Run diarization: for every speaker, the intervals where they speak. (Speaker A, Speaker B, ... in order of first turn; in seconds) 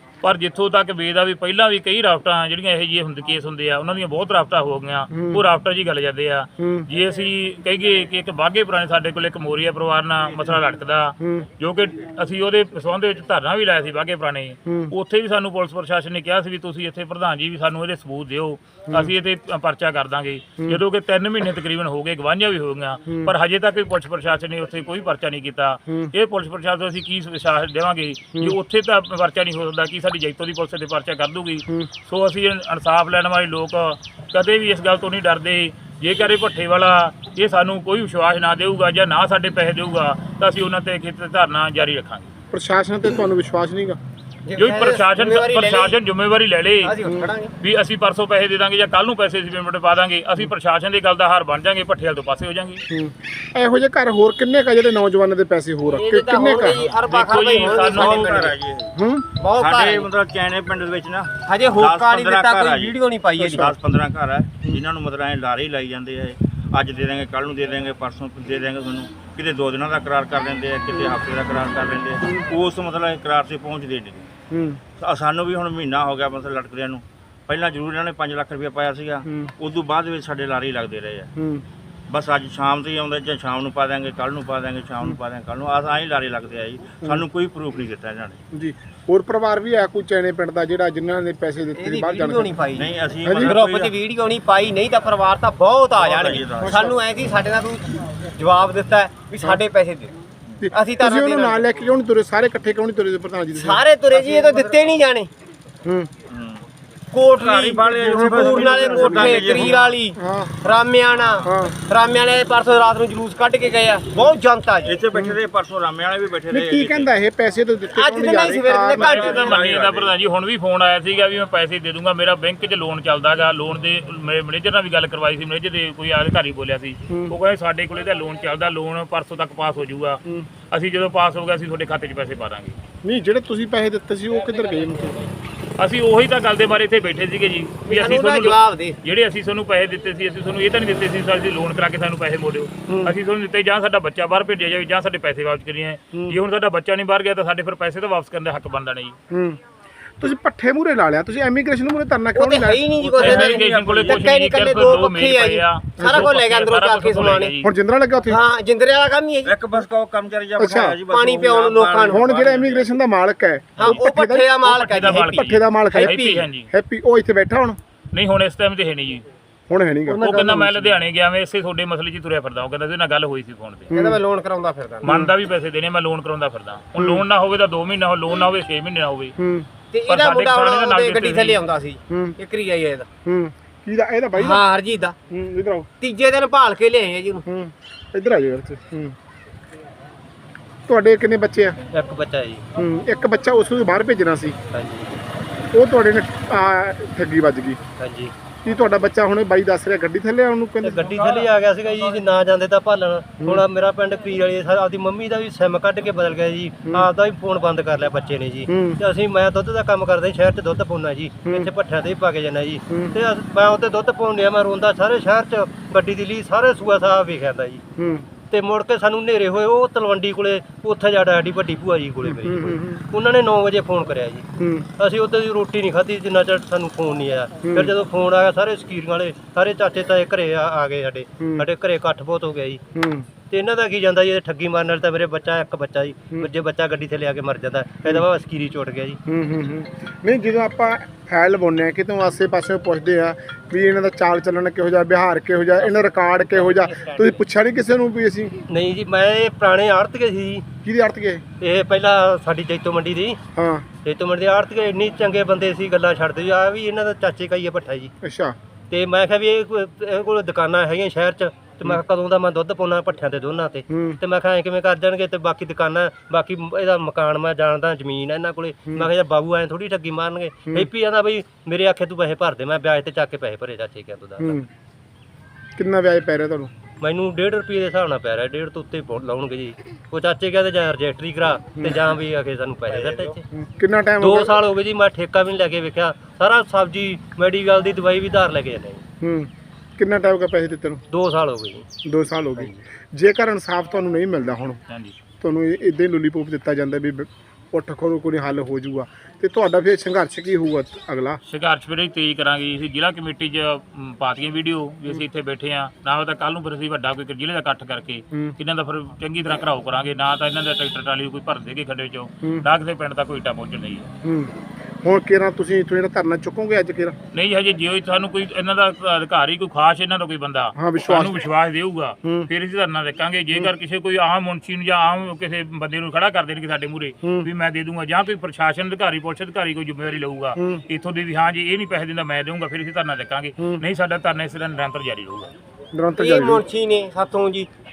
Speaker A: 0.2-42.3, 44.5-47.0, 47.6-52.8, 57.0-58.2, 119.0-132.8, 135.8-149.2, 153.2-157.7, 164.6-166.7, 168.1-169.2, 170.2-173.9, 175.0-179.3, 180.1-181.6, 294.9-295.2, 301.4-314.1, 317.3-335.5
Speaker B: 5.1-5.4, 6.6-6.9, 11.2-11.5, 14.7-14.9, 42.5-44.0, 47.0-47.3, 52.9-56.9, 58.9-59.3, 70.9-72.5, 74.5-74.8, 79.2-79.5, 81.3-81.6, 88.5-92.6, 93.2-93.6, 96.6-96.9, 100.6-103.8, 105.8-106.1, 107.8-110.6, 111.4-111.8, 115.1-115.4, 116.5-119.5, 127.1-127.3, 133.0-135.2, 142.9-143.2, 146.1-146.4, 149.3-149.6, 150.2-152.9, 156.0-156.3, 157.6-158.4, 160.6-161.0, 162.0-164.5, 165.3-167.8, 169.7-170.3, 173.9-174.2, 175.0-175.3, 177.0-177.2, 179.4-179.7, 182.1-182.4, 183.2-184.7, 185.3-185.9, 187.4-189.2, 190.9-191.8, 192.8-194.6, 195.7-197.8, 198.6-201.2, 208.7-209.0, 218.0-218.3, 222.2-223.0, 224.6-224.9, 227.6-227.9, 231.4-231.7, 232.9-233.3, 239.3-248.6, 250.8-251.4, 253.6-253.8, 258.2-258.6, 263.9-264.2, 274.4-274.7, 275.8-276.7, 283.5-284.6, 289.2-291.0, 292.0-294.8, 295.4-301.4, 314.2-317.1, 320.7-321.4, 322.2-322.5, 327.2-327.5, 330.6-330.8, 333.6-333.8, 335.9-336.6
Speaker C: 44.5-46.0, 46.8-47.5, 55.8-58.6, 59.4-60.1, 61.4-63.7, 91.8-100.1, 100.7-101.6, 103.5-105.3, 107.1-115.0, 117.9-119.6, 137.9-139.0, 152.3-157.5, 158.3-159.5, 161.1-162.2, 163.8-166.5, 173.9-175.1, 179.9-183.1, 184.3-185.2, 186.0-187.4, 336.1-337.7
Speaker D: 57.5-58.9, 59.5-74.2, 75.0-81.3, 82.1-88.4, 92.7-93.9, 96.0-97.0, 106.3-106.6, 107.4-109.8, 114.8-117.1, 119.3-120.1, 153.0-154.3, 159.4-162.9
Speaker E: 191.9-192.7, 194.7-195.2, 198.0-198.3, 200.8-217.8, 218.4-232.8, 233.4-239.2, 245.9-247.3, 248.7-250.7, 251.6-253.4, 254.0-258.1, 258.9-274.6, 277.0-283.4, 284.2-289.0, 291.1-291.9